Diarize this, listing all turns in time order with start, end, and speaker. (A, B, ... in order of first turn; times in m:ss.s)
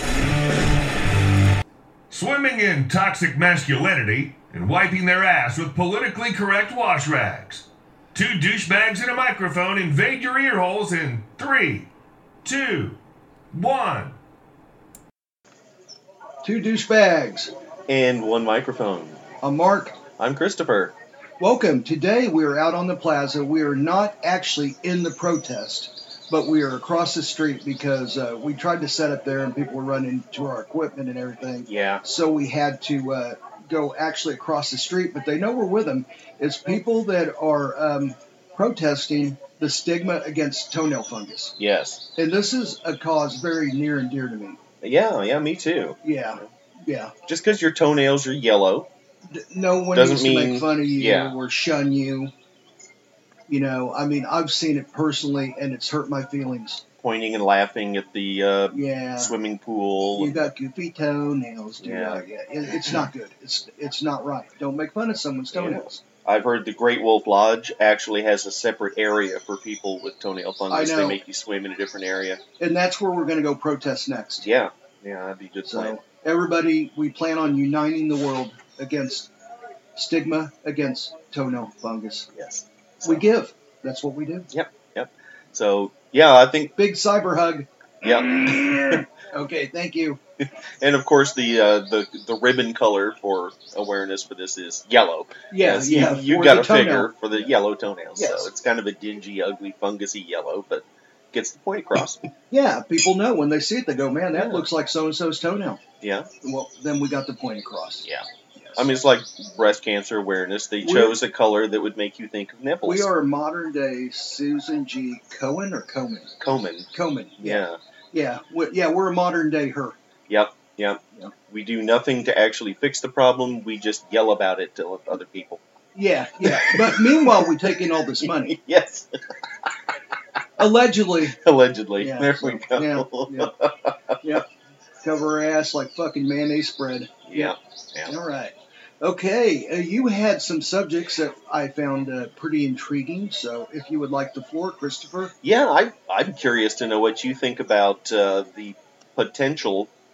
0:02.1-0:11.9 A
0:12.4-0:13.0 A
0:13.5-0:14.2 A
0:16.4-0:17.5 B
0:17.9-0:19.2 C
0:19.4-0:20.0 B
0:20.2-0:21.0 C
0:21.4-0:41.5 B
0:31.7-0:32.0 C
0:41.6-0:42.0 C
0:42.2-0:44.6 B
0:44.8-0:46.5 C
0:46.0-0:47.1 B
0:47.3-0:48.9 C
0:49.3-0:52.3 B
0:49.9-0:51.4 C
0:53.5-0:56.8 B
0:57.0-1:00.5 C
0:58.7-0:59.3 B
1:00.2-1:06.0 B
1:01.8-1:02.2 C
1:02.8-1:03.1 C
1:05.5-1:12.4 C
1:10.7-1:11.2 B
1:12.6-1:14.5 B
1:14.4-1:16.0 C
1:15.7-1:19.3 B
1:20.0-1:22.3 B
1:22.3-1:23.2 C
1:23.0-1:24.5 B
1:24.5-1:26.7 C
1:26.8-1:27.7 B
1:28.0-1:29.0 C
1:28.6-1:30.2 B
1:30.4-1:42.3 C
1:35.5-1:37.1 B
1:38.2-1:38.5 B
1:42.5-1:45.8 B
1:44.3-1:44.6 C
1:46.0-1:46.3 C
1:46.4-1:48.9 B
1:48.0-1:53.1 C
1:50.8-1:51.1 B
1:52.8-1:56.3 B
1:56.4-1:57.8 C
1:56.9-2:00.0 B
2:00.3-2:05.6 C
2:06.0-2:08.6 B
2:06.4-2:09.9 C
2:10.6-2:11.4 B
2:11.3-2:14.2 C
2:12.0-2:13.5 B
2:15.0-2:17.6 B
2:17.3-2:18.2 C
2:18.1-2:25.3 B
2:25.4-2:29.9 C